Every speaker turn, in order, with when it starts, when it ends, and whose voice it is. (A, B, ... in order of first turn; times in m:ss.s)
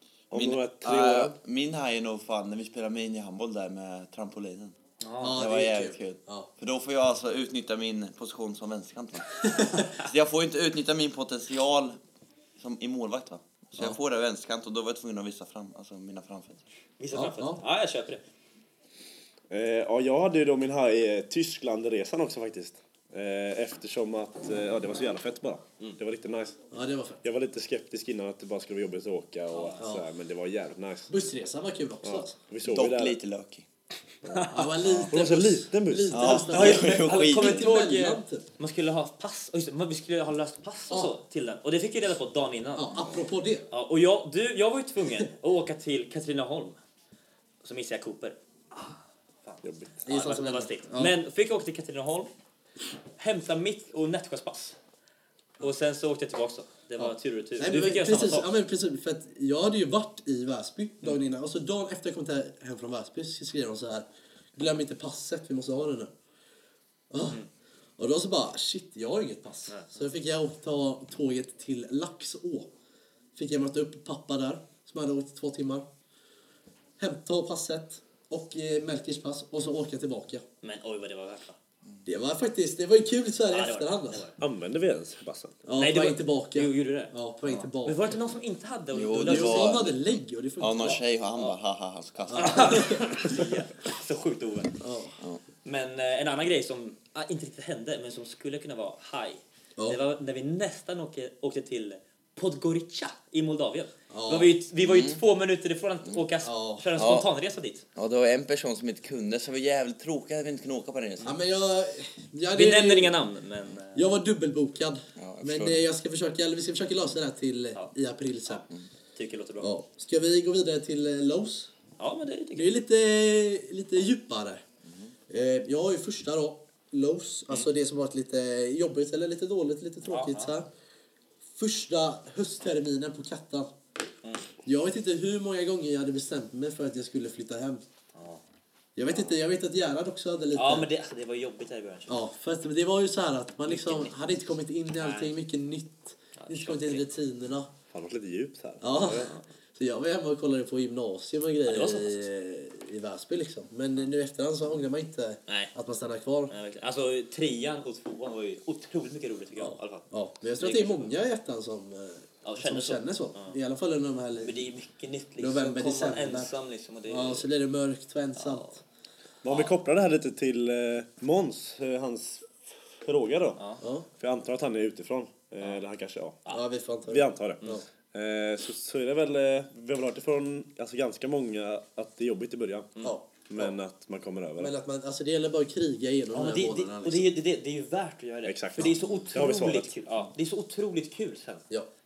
0:00.3-0:01.3 A
0:00.3-0:04.7 B
0:05.0-0:05.4 C
0:05.2-0:06.5 D
0:05.3-0:12.0 B
0:12.6-0:16.7 B
0:17.0-0:18.2 C
0:17.1-0:17.6 D
0:19.5-0:26.6 A
0:26.7-0:27.2 D
0:27.2-0:31.1 A
0:29.5-0:29.8 C
0:29.8-0:30.0 D
0:31.1-0:32.3 D
0:32.0-0:33.2 A
0:32.6-0:33.7 B
0:34.3-0:35.1 C
0:34.4-0:38.4 D
0:35.1-0:36.4 A
0:36.1-0:37.7 B
0:36.3-0:42.9 C
0:42.7-0:43.7 D
0:43.7-0:46.8 C
0:47.6-0:48.9 C
0:49.4-0:52.3 C
0:49.6-0:50.0 A
0:50.0-0:51.1 D
0:53.2-0:54.8 C
0:55.6-0:58.5 C
0:57.0-1:06.1 D
1:07.1-1:07.4 D
1:08.0-1:12.7 D
1:13.4-1:15.8 D
1:17.0-1:20.4 D
1:20.6-1:21.6 C
1:22.0-1:24.3 D
1:23.5-1:24.4 C
1:24.4-1:25.6 A
1:25.6-1:28.1 D
1:25.8-1:27.1 C
1:27.8-1:29.9 C
1:28.9-1:33.0 B
1:29.2-1:31.0 D
1:30.8-1:31.5 C
1:32.3-1:33.4 D
1:32.3-1:34.8 C
1:34.8-1:35.2 D
1:35.6-1:47.8 C
1:44.1-1:44.6 D
1:44.8-1:45.2 B
1:46.4-1:46.8 D
1:46.9-1:47.3 B
1:47.9-1:51.3 B
1:51.2-1:53.1 D
1:52.5-1:54.1 C
1:53.9-1:58.6 D
1:55.2-1:55.8 B
1:59.2-1:59.7 C
1:59.6-2:01.7 D
2:02.0-2:02.7 C
2:02.6-2:04.6 D
2:04.8-2:05.1 B
2:05.3-2:10.7 D
2:10.1-2:10.5 C
2:11.6-2:13.7 D
2:14.6-2:17.8 D
2:18.1-2:18.4 C
2:19.0-2:20.9 D
2:20.5-2:22.2 C
2:22.1-2:27.7 D
2:23.7-2:24.2 C
2:25.0-2:25.3 C
2:26.4-2:27.0 C
2:27.9-2:29.3 A
2:28.8-2:36.5 D
2:31.6-2:32.2 C
2:35.5-2:35.7 C
2:36.5-2:40.0 C
2:39.6-2:44.6 D
2:40.6-2:41.1 C
2:42.4-2:43.5 C
2:44.4-2:47.5 C
2:45.4-2:46.5 D
2:47.1-2:48.8 D
2:48.4-2:48.7 C
2:49.4-2:53.6 A
2:53.6-2:53.8 C
2:53.8-2:54.0 D
2:54.2-2:56.4 A
2:56.5-2:57.8 D
2:57.1-3:03.0 A
3:03.0-3:03.7 D
3:03.5-3:04.7 A
3:04.6-3:07.3 D
3:06.3-3:11.6 C
3:08.4-3:09.9 A